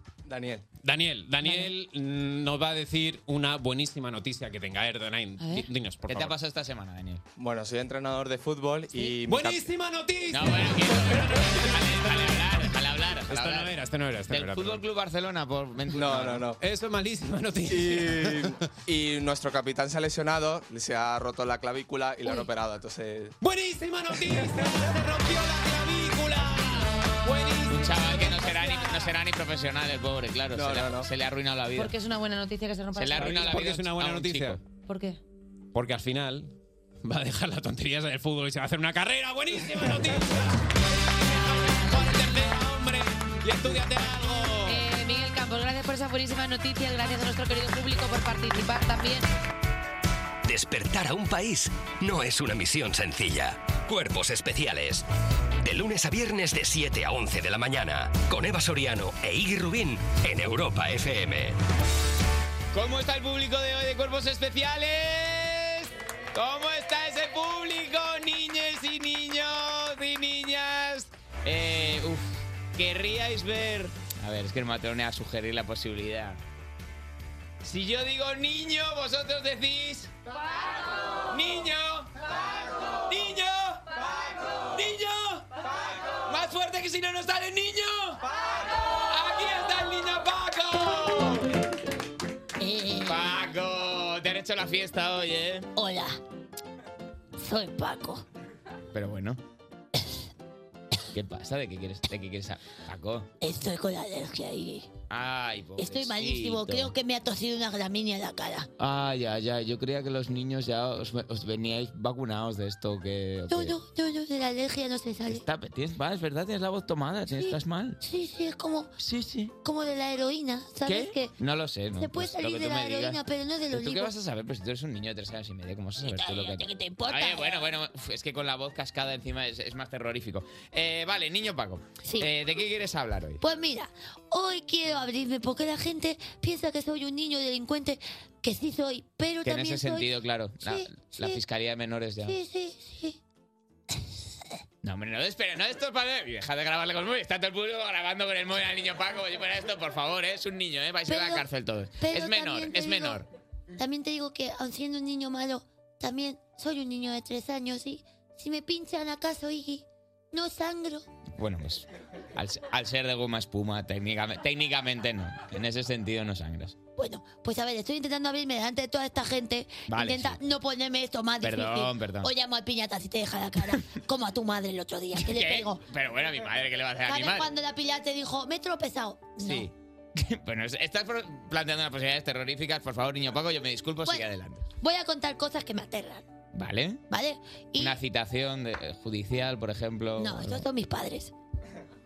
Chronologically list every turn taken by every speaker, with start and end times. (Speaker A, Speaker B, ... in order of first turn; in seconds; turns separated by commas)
Speaker A: 0.2-0.7, Speaker B: 0.8-6.3, Speaker C: 1.4-1.7, Speaker C: 5.4-5.7, Speaker D: 6.1-7.2, Speaker A: 7.4-9.7, Speaker B: 9.3-12.5, Speaker D: 10.3-13.7, Speaker B: 13.3-14.8, Speaker D: 14.3-16.5, Speaker A: 15.9-16.6, Speaker B: 16.6-18.6, Speaker A: 17.7-23.4, Speaker B: 23.4-29.1, Speaker D: 27.7-31.9, Speaker A: 30.5-31.1, Speaker C: 31.8-33.5, Speaker D: 33.0-34.6, Speaker B: 33.2-34.6, Speaker C: 34.9-35.2, Speaker B: 35.7-36.5, Speaker B: 37.0-44.8, Speaker C: 44.6-49.3, Speaker E: 50.5-55.0, Speaker E: 55.6-61.6, Speaker D: 62.7-76.4, Speaker D: 77.6-80.1, Speaker D: 81.3-82.1, Speaker D: 83.0-83.9, Speaker D: 84.7-85.5, Speaker D: 86.3-88.2, Speaker D: 89.0-91.5, Speaker F: 92.6-93.4, Speaker D: 93.1-95.7, Speaker F: 95.8-96.2, Speaker F: 97.4-98.2, Speaker D: 98.9-99.4, Speaker D: 101.1-103.3, Speaker F: 103.4-104.9, Speaker D: 105.1-106.9, Speaker F: 105.8-108.7, Speaker D: 108.8-113.8, Speaker F: 113.5-115.4, Speaker D: 115.3-118.0, Speaker F: 117.3-118.9, Speaker D: 119.0-119.6, Speaker F: 119.6-121.3, Speaker D: 120.9-123.2, Speaker F: 121.9-124.1, Speaker D: 123.7-133.4, Speaker F: 126.0-127.7, Speaker F: 132.0-132.3, Speaker F: 133.4-141.4, Speaker D: 139.4-142.4, Speaker F: 142.2-143.2, Speaker D: 144.8-153.3, Speaker F: 151.1-153.2, Speaker F: 153.8-161.1, Speaker D: 161.4-166.8, Speaker F: 167.0-175.8, Speaker D: 169.9-170.4, Speaker D: 171.4-172.3, Speaker D: 175.2-177.5, Speaker F: 177.1-179.7, Speaker D: 179.4-184.7, Speaker F: 184.1-186.3, Speaker D: 186.6-187.0, Speaker F: 187.1-188.0, Speaker D: 187.8-190.7, Speaker F: 190.2-191.3